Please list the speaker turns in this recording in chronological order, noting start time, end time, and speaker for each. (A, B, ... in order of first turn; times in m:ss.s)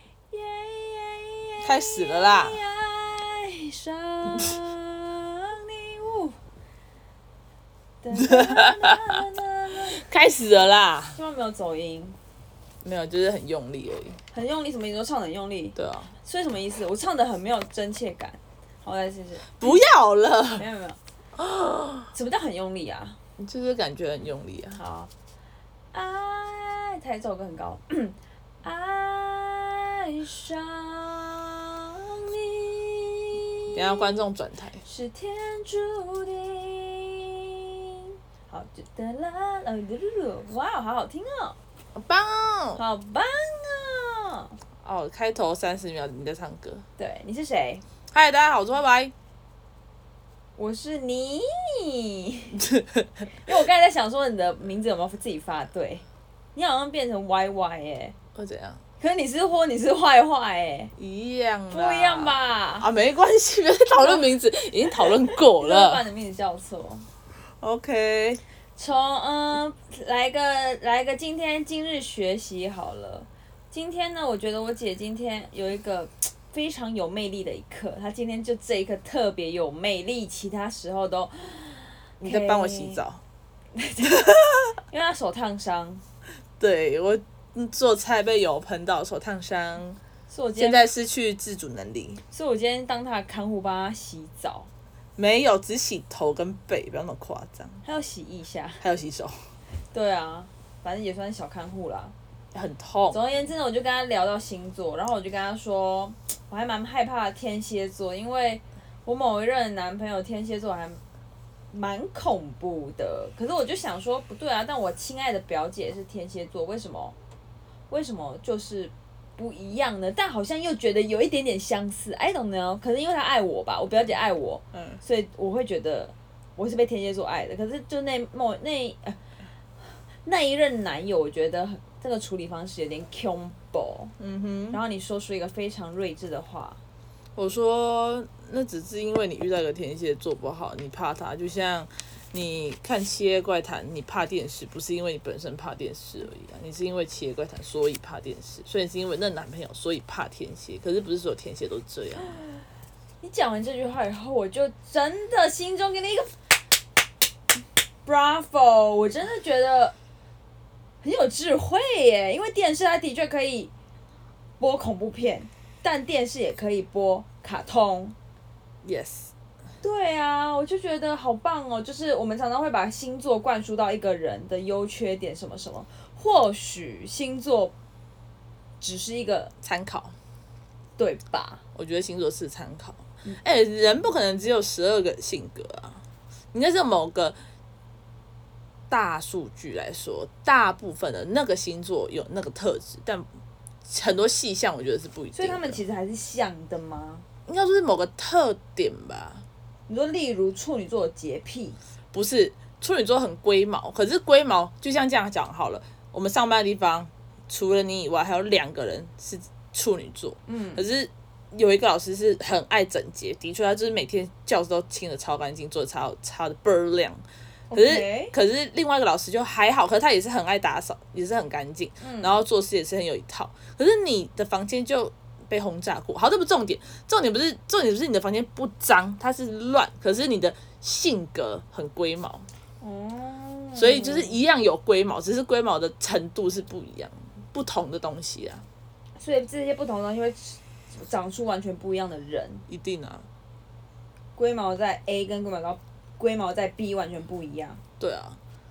0:00.3-0:06.4 A
0:01.6-0:02.6 B
0:08.0-0:10.0 A
0:08.2-0:09.1 B
0:10.0-0:11.2 B
0:11.2-0:12.2 A
0:12.8-0:14.2 B
0:14.3-0:19.8 A
0:15.8-0:16.1 B
0:19.6-0:20.6 B
0:20.6-0:21.0 A
0:21.4-0:22.1 B
0:22.1-0:23.2 A
0:23.4-0:24.8 B
0:24.7-0:25.1 A
0:25.9-0:34.0 A
0:33.7-0:34.8 B
0:34.8-0:37.8 A
0:38.5-0:41.6 A
0:42.0-0:42.8 B
0:42.8-0:44.6 A
0:44.8-0:46.8 B
0:47.0-0:47.8 A
0:48.1-0:49.1 B
0:50.6-0:52.7 A
0:52.6-0:53.1 B
0:53.4-0:56.0 A
0:56.6-0:58.2 A
0:58.4-0:58.8 B
0:59.0-1:00.9 A
1:01.0-1:06.0 B
1:01.7-1:02.9 A
1:04.0-1:04.2 A
1:05.0-1:07.1 A
1:07.6-1:08.4 B
1:08.8-1:23.0 A
1:22.2-1:23.2 B
1:23.8-1:26.0 A
1:26.6-1:30.0 B
1:30.3-1:30.8 A
1:30.6-1:32.2 B
1:32.3-1:34.7 A
1:35.2-1:37.8 B
1:37.8-1:38.8 A
1:38.8-1:39.4 B
1:39.9-1:42.2 A
1:42.5-1:43.2 B
1:43.1-1:51.0 A
1:51.7-1:57.2 A
1:57.9-2:09.2 A
2:04.7-2:05.0 B
2:09.8-2:14.1 A
2:14.2-2:14.8 B
2:14.7-2:16.8 A
2:17.4-2:32.4 B
2:32.2-2:32.6 A
2:33.2-2:36.3 A
2:38.0-2:40.0 A
2:41.0-2:43.7 A
2:44.6-2:48.2 A
2:48.8-2:49.3 B
2:49.8-2:57.7 A
2:58.8-2:59.5 A
2:59.6-3:00.2 B
3:01.0-3:01.6 A
3:01.8-3:06.0 B
3:06.5-3:07.4 B
3:08.9-3:13.3 B
3:13.9-3:15.8 B
3:15.4-3:17.3 A
3:17.5-3:19.4 B
3:19.9-3:21.8 A
3:22.1-3:37.2 B
3:30.5-3:30.8 A
3:37.7-3:38.3 A
3:37.7-3:52.5 B
3:42.0-3:42.4 A
3:52.8-3:54.4 A
3:53.8-3:58.6 B
3:59.2-4:02.6 A
4:02.7-4:03.3 B
4:04.4-4:07.8 A
4:08.0-4:08.4 B